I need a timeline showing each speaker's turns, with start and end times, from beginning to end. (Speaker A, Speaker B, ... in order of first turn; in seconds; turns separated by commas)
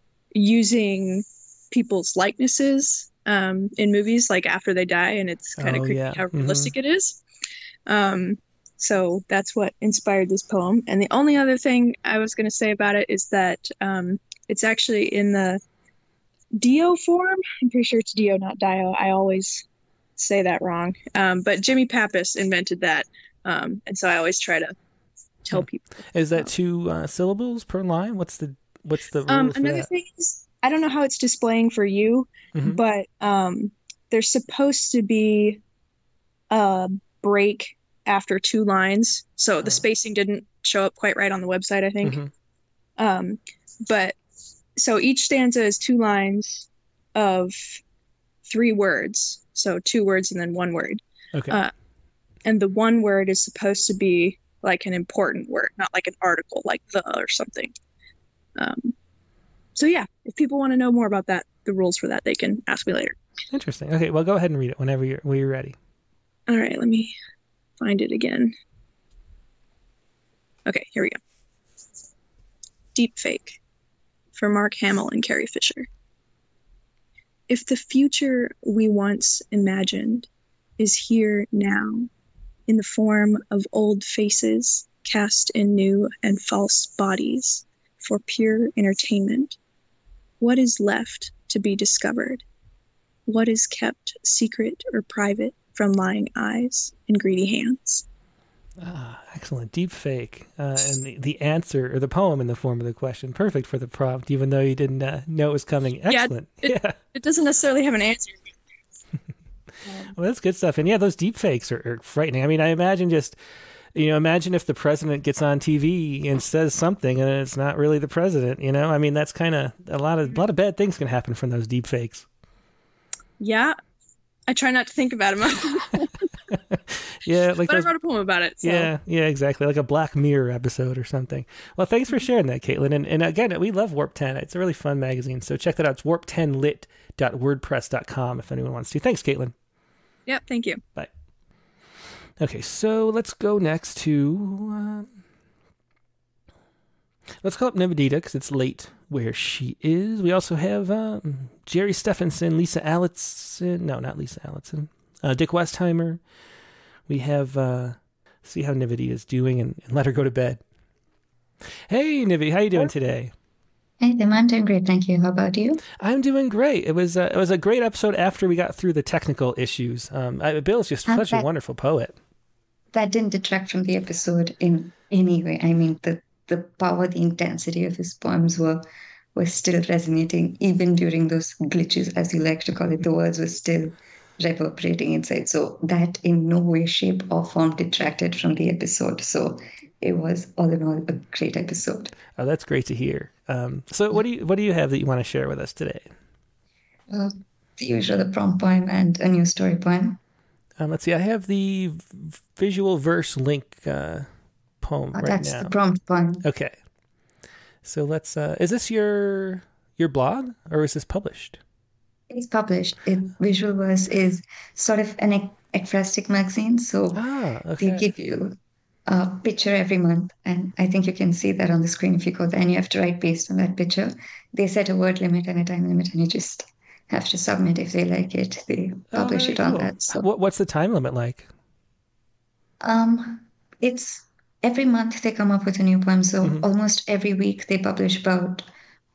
Speaker A: 0.3-7.2, Speaker B: 5.6-6.7, Speaker A: 7.9-15.6, Speaker A: 16.6-19.6, Speaker A: 20.2-24.8, Speaker A: 25.4-26.5, Speaker B: 25.5-29.9, Speaker A: 29.3-35.6, Speaker A: 36.5-42.2, Speaker B: 42.0-42.3, Speaker A: 43.0-44.2, Speaker A: 44.8-47.8, Speaker A: 48.5-51.7, Speaker A: 52.5-57.8, Speaker A: 58.6-59.0, Speaker A: 59.8-63.2, Speaker B: 63.5-65.8, Speaker A: 66.5-67.1, Speaker A: 67.8-68.5, Speaker A: 70.7-71.2, Speaker A: 73.0-73.6, Speaker A: 74.3-75.9, Speaker A: 77.5-80.3, Speaker A: 80.8-82.1, Speaker A: 82.7-89.6, Speaker A: 90.4-92.4, Speaker A: 93.3-98.0, Speaker B: 98.8-107.0, Speaker A: 106.1-108.5, Speaker B: 110.1-113.4, Speaker B: 114.0-122.3, Speaker A: 123.4-123.8, Speaker A: 124.5-126.1, Speaker B: 126.5-127.9, Speaker A: 127.7-128.9, Speaker B: 128.6-139.5, Speaker A: 140.3-140.8, Speaker B: 142.4-145.1, Speaker B: 147.4-156.2, Speaker B: 157.1-160.6, Speaker B: 161.9-163.3, Speaker C: 164.0-165.8, Speaker B: 166.0-172.2, Speaker C: 171.1-171.5, Speaker C: 172.9-192.1, Speaker B: 192.4-196.1, Speaker C: 197.1-200.2, Speaker B: 200.8-204.3, Speaker B: 204.8-205.7, Speaker C: 205.1-206.4, Speaker B: 206.4-206.8, Speaker B: 207.8-211.6, Speaker C: 212.3-217.2, Speaker B: 217.1-218.1, Speaker C: 217.8-218.6, Speaker C: 219.1-230.3, Speaker B: 229.1-231.5, Speaker C: 232.8-238.7